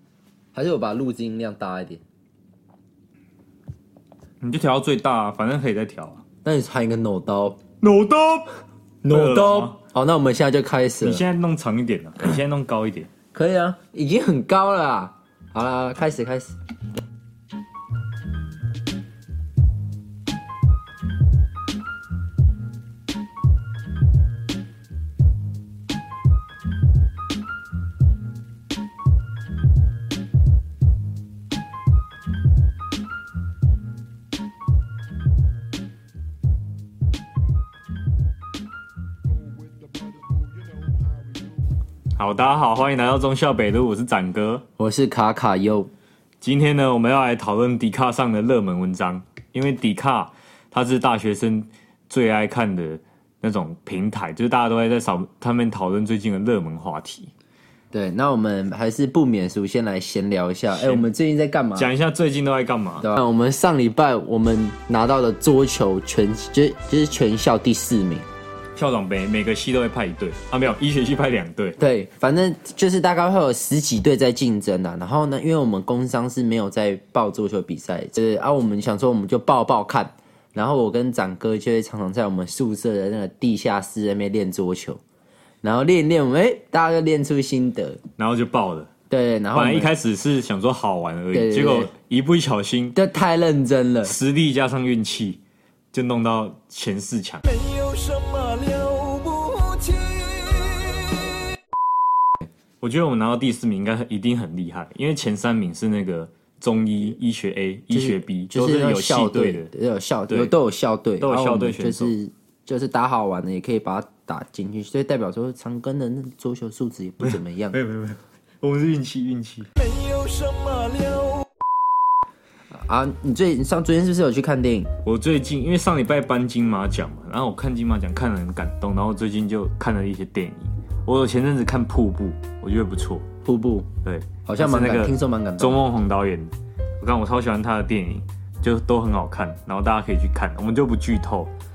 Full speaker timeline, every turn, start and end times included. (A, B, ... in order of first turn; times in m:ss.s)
0:00.5-0:02.0 A
0:04.4-0:06.2 B
0:06.4-0:07.6 A
0:07.8-0:09.8 B
0:09.0-0:11.2 A
0:11.0-0:13.1 B
0:13.3-0:16.6 A
0:39.2-0:41.8 C
0:42.1-0:44.6 B
0:44.8-0:45.9 A
0:46.4-0:57.3 B
0:57.9-1:01.9 A
1:00.7-1:01.1 B
1:01.8-1:03.1 B
1:03.0-1:08.3 A
1:08.8-1:11.8 B
1:11.8-1:25.0 A
1:25.6-1:28.0 A
1:28.2-1:28.9 B
1:29.1-1:29.9 A
1:29.5-1:33.0 B
1:31.3-1:31.9 A
1:33.0-1:34.2 A
1:34.0-1:35.4 B
1:35.9-1:37.5 B
1:37.5-1:41.4 C
1:42.8-1:49.7 B
1:47.9-1:57.8 A
1:51.2-1:52.2 B
1:57.2-1:59.7 B
1:59.8-2:01.5 C
2:02.7-2:04.9 A
2:05.0-2:13.3 B
2:13.4-2:13.9 A
2:14.0-2:21.5 B
2:14.4-2:15.8 A